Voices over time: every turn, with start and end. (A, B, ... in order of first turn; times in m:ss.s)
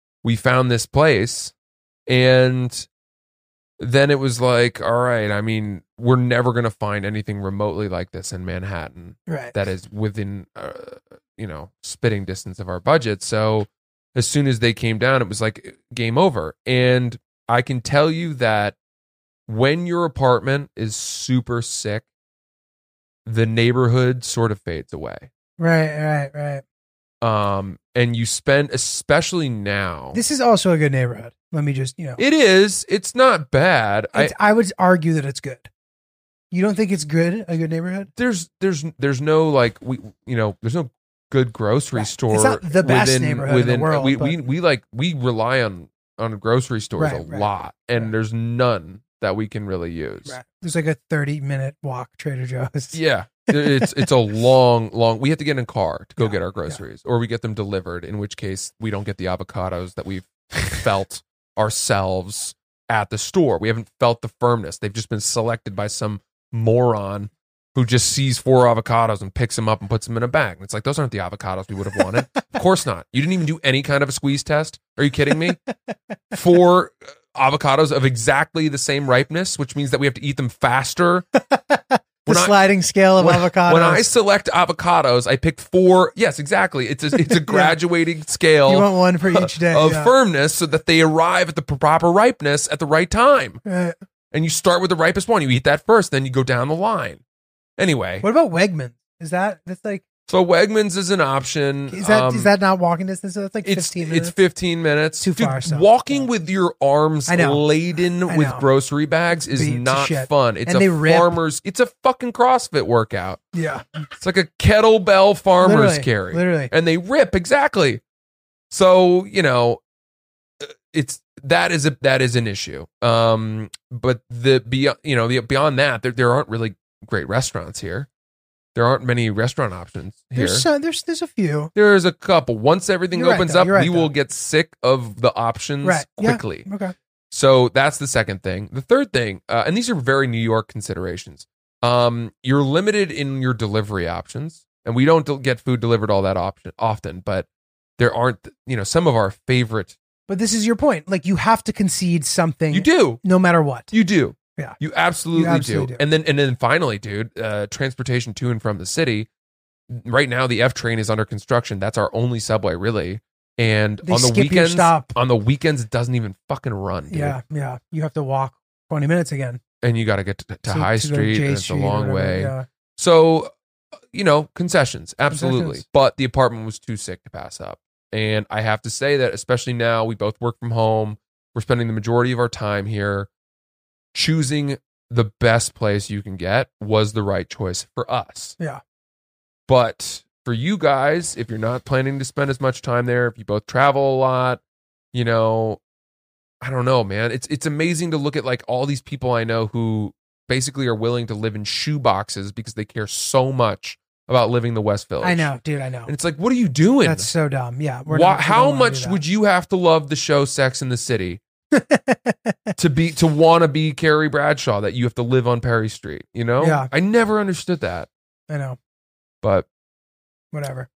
0:00.2-0:01.5 A
0:02.1-0:02.9 A
0:03.8-0:18.7 A
0:09.3-0:09.6 B
0:19.5-0:22.0 A
0:23.2-0:25.3 A
0:25.6-0:26.6 B
0:27.2-0:30.2 A
0:30.1-0:32.2 B
0:32.2-0:34.3 A
0:34.1-0:35.7 B
0:36.5-0:38.1 B
0:38.2-0:50.4 A
0:41.9-0:44.3 B
0:47.0-0:47.5 B
0:50.2-0:54.1 B
0:52.9-1:15.6 A
0:56.2-0:56.8 B
1:16.3-1:21.2 A
1:21.5-1:24.1 B
1:22.2-1:22.6 A
1:23.2-1:33.6 A
1:27.2-1:27.7 B
1:28.7-1:30.1 B
1:33.6-1:33.9 B
1:34.3-1:37.2 A
1:37.8-1:38.2 A
1:38.2-1:40.0 B
1:40.3-1:42.5 A
1:41.9-1:44.3 B
1:43.6-1:53.4 A
1:45.2-1:46.3 B
1:47.3-1:47.6 B
1:48.3-1:48.6 B
1:49.5-1:51.4 B
1:53.5-1:54.0 B
1:54.2-1:58.0 A
1:55.6-1:56.7 B
1:58.7-1:59.8 A
2:00.6-2:08.1 A
2:08.7-2:10.6 A
2:10.3-2:11.7 B
2:11.7-2:16.7 A
2:13.1-2:14.1 B
2:15.8-2:16.9 B
2:17.3-2:27.5 A
2:28.0-2:30.0 A
2:30.3-2:33.9 B
2:32.7-2:33.2 A
2:33.9-2:39.3 A
2:35.3-2:36.0 B
2:39.9-2:47.4 A
2:44.0-2:45.1 B
2:47.1-2:49.6 B
2:49.8-2:53.5 A
2:50.7-2:52.6 B
2:54.1-3:03.3 A
2:55.3-2:55.8 B
3:04.1-3:08.6 A
3:09.7-3:14.6 A
3:15.1-3:15.8 A
3:16.6-3:25.5 A
3:25.2-3:26.1 B
3:26.0-3:27.3 A
3:27.0-3:29.2 B
3:28.1-3:31.4 A
3:31.7-3:32.7 B
3:32.8-3:38.1 A
3:36.6-3:36.9 B
3:38.5-3:38.8 B
3:40.5-3:40.9 B